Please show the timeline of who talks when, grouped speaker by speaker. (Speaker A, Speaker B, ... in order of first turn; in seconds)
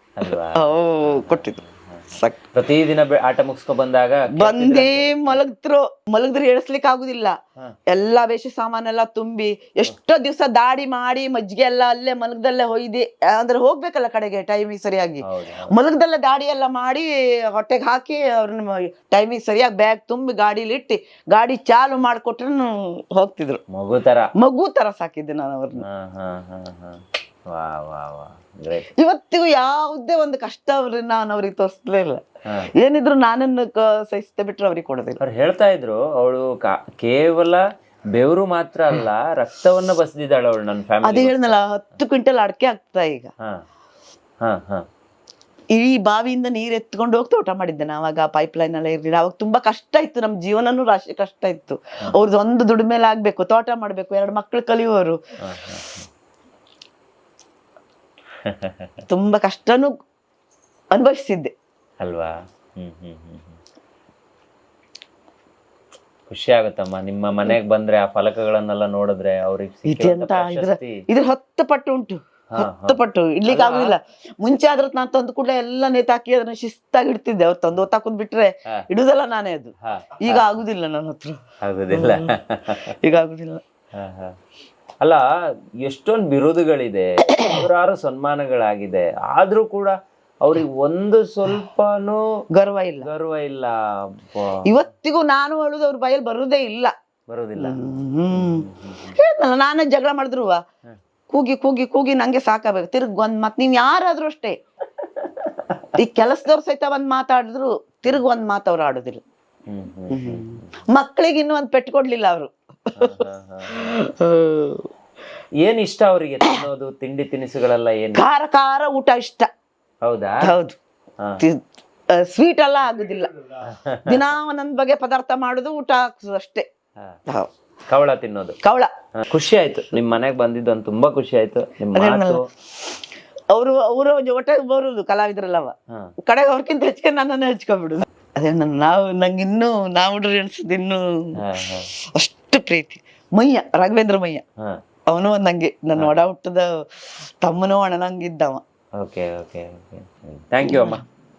Speaker A: 0.2-5.4, 15.2-15.8, 23.7-24.3, 25.8-28.9, 35.2-37.6, 38.1-41.6, 44.4-44.8, 55.4-56.1, 58.5-58.9, 62.0-63.6, 66.3-71.0, 72.5-73.9, 79.8-80.5, 81.6-82.8, 84.0-84.3, 85.8-92.2, 93.0-94.6, 97.3-97.8, 98.3-99.2, 105.2-105.9, 109.7-110.7, 113.0-113.7, 115.6-118.2, 120.0-120.5, 123.7-124.2, 127.9-128.6, 129.2-132.4, 141.4-141.9, 149.0-151.0
Speaker B: 0.6-1.6, 2.1-2.4, 4.4-7.3, 7.9-23.6, 24.4-25.8, 29.0-32.2, 32.7-35.2, 41.0-43.3, 45.7-55.2, 59.1-59.9, 60.9-61.5, 69.8-81.4, 81.9-82.3, 83.0-83.6, 92.5-93.1, 94.6-96.9, 97.6-100.6, 101.3-104.5, 106.0-109.2, 110.1-113.1, 113.7-114.9, 118.1-119.5, 120.4-120.8, 121.4-123.3, 124.0-126.6, 128.6-128.9, 131.9-132.4, 133.5-141.4, 142.1-144.4, 145.1-146.7, 147.4-148.6